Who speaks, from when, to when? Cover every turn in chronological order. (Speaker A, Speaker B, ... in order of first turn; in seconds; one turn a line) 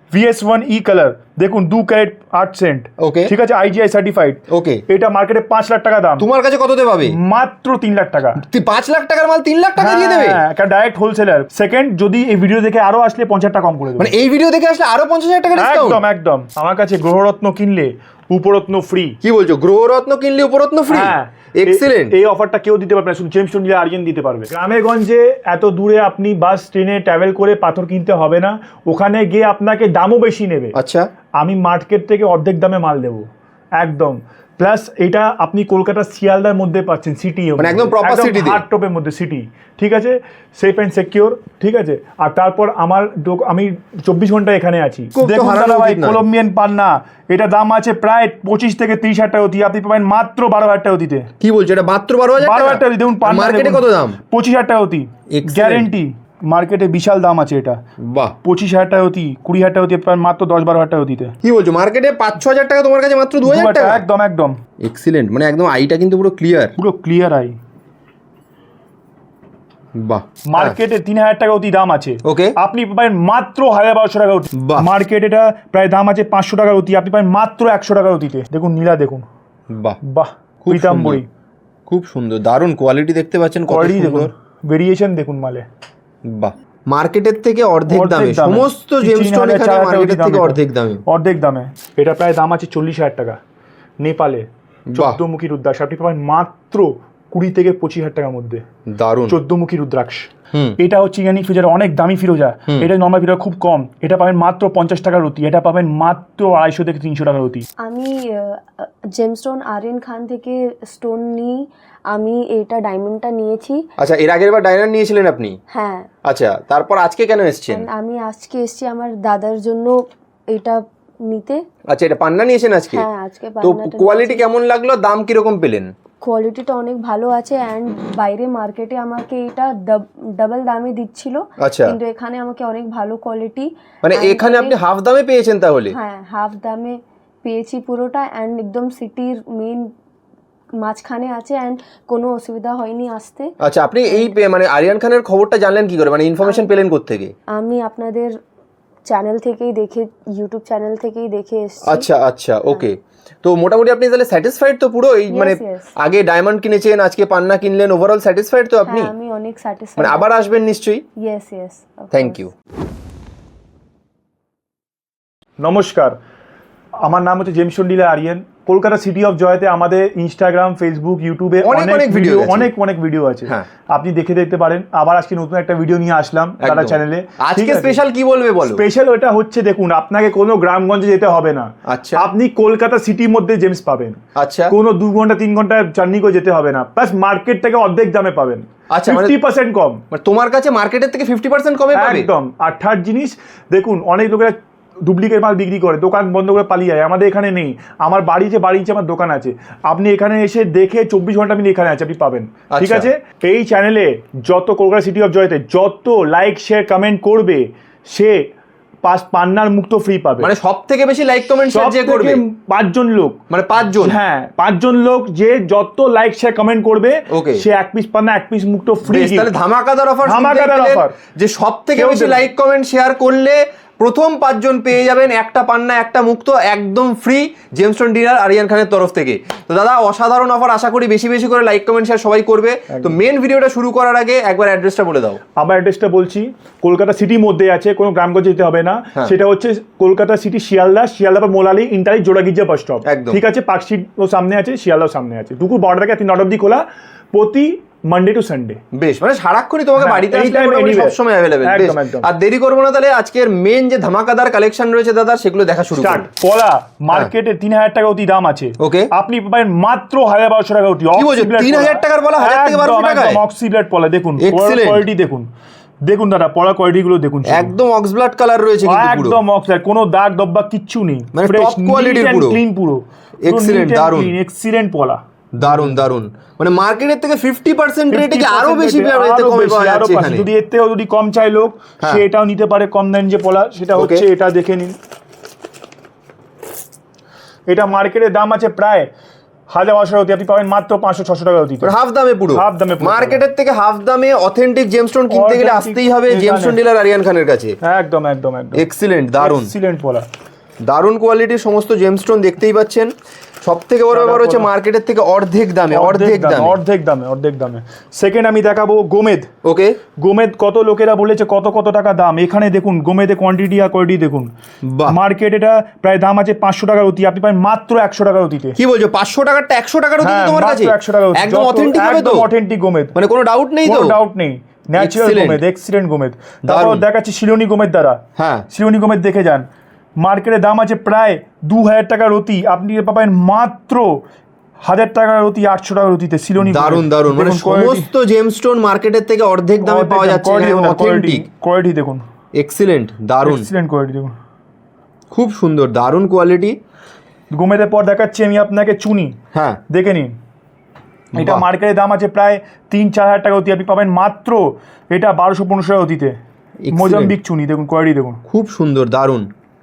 Speaker A: 0.1-6.3
Speaker B: 3.0-3.3
Speaker B: 4.5-4.8
Speaker B: 6.2-7.2
Speaker A: 7.1-8.4
Speaker B: 8.4-10.4
Speaker A: 9.8-14.2
Speaker B: 14.0-16.0
Speaker A: 15.6-19.2
Speaker B: 19.2-22.1
Speaker A: 20.9-30.8
Speaker B: 30.7-31.1
Speaker A: 31.4-51.3
Speaker B: 37.6-38.6
Speaker B: 45.1-46.2
Speaker B: 51.4-54.2
Speaker A: 52.4-57.8
Speaker B: 55.3-55.9
Speaker B: 58.0-58.4
Speaker A: 58.4-61.4
Speaker B: 61.4-64.0
Speaker A: 63.4-64.6
Speaker B: 64.8-66.8
Speaker A: 66.8-67.6
Speaker B: 69.9-70.8
Speaker A: 70.5-79.2
Speaker B: 72.2-72.5
Speaker B: 74.5-74.9
Speaker B: 79.7-80.0
Speaker A: 80.0-81.3
Speaker B: 80.6-81.2
Speaker B: 81.9-84.3
Speaker A: 83.7-85.7
Speaker B: 86.2-91.0
Speaker A: 87.9-93.4
Speaker A: 94.0-98.6
Speaker B: 94.9-95.2
Speaker B: 98.9-99.4
Speaker A: 99.3-107.7
Speaker C: 107.8-113.9
Speaker B: 114.0-115.6
Speaker C: 115.7-116.1
Speaker B: 116.2-117.9
Speaker C: 117.7-121.6
Speaker B: 121.9-123.1
Speaker C: 122.9-124.5
Speaker B: 123.6-125.9
Speaker C: 126.2-134.8
Speaker B: 131.6-132.0
Speaker B: 134.0-136.0
Speaker C: 135.9-139.9
Speaker C: 140.8-143.6
Speaker B: 143.6-147.3
Speaker C: 144.1-144.3
Speaker C: 147.5-148.4
Speaker C: 149.1-152.1
Speaker B: 151.8-159.1
Speaker C: 155.3-155.9
Speaker C: 158.9-160.2
Speaker B: 160.0-161.1
Speaker C: 161.2-162.4
Speaker B: 162.1-162.5
Speaker A: 165.6-166.2
Speaker A: 167.0-178.0
Speaker B: 171.6-172.7
Speaker B: 176.6-178.8
Speaker A: 178.7-190.0
Speaker B: 181.9-182.2
Speaker B: 184.3-184.7
Speaker B: 188.9-189.4
Speaker B: 190.1-192.3
Speaker A: 191.9-208.5
Speaker B: 202.7-203.1
Speaker A: 209.0-210.5
Speaker B: 210.4-212.4
Speaker A: 211.7-213.4
Speaker B: 213.5-214.2
Speaker A: 214.0-219.5
Speaker B: 217.3-217.6
Speaker B: 219.1-235.4
Speaker A: 220.2-221.2
Speaker A: 222.0-222.4
Speaker A: 232.9-233.2
Speaker A: 235.6-248.8
Speaker B: 243.0-243.4
Speaker B: 248.9-256.2
Speaker A: 250.0-252.3
Speaker A: 256.0-265.5
Speaker B: 258.8-259.1
Speaker B: 261.1-263.4
Speaker B: 264.4-265.1
Speaker A: 266.0-267.7
Speaker B: 267.4-269.4
Speaker A: 268.8-275.9
Speaker B: 271.3-272.6
Speaker B: 273.4-274.3
Speaker B: 275.5-280.5
Speaker A: 278.1-284.9
Speaker B: 283.9-284.2
Speaker A: 287.7-289.1
Speaker A: 289.7-291.9
Speaker B: 291.8-297.8
Speaker A: 292.5-293.4
Speaker A: 295.3-296.8
Speaker A: 297.8-298.8
Speaker B: 298.8-299.7
Speaker A: 299.4-300.3
Speaker B: 300.8-306.8
Speaker A: 304.1-304.7
Speaker A: 305.9-309.5
Speaker B: 309.6-310.0
Speaker A: 310.2-314.5
Speaker B: 314.8-315.2
Speaker A: 315.1-318.8
Speaker B: 318.8-322.5
Speaker A: 320.2-323.1
Speaker B: 323.1-324.2
Speaker A: 323.8-329.7
Speaker B: 325.0-325.6
Speaker B: 326.6-327.0
Speaker B: 328.4-328.7
Speaker A: 330.2-334.2
Speaker A: 334.8-338.1
Speaker B: 336.6-341.5
Speaker A: 339.8-342.2
Speaker B: 342.5-343.7
Speaker A: 343.4-344.3
Speaker B: 345.3-346.8
Speaker A: 347.5-349.4
Speaker B: 349.5-349.8
Speaker A: 349.9-350.4
Speaker B: 351.3-351.6
Speaker A: 351.4-356.4
Speaker B: 356.8-357.4
Speaker A: 356.9-358.4
Speaker B: 358.4-359.5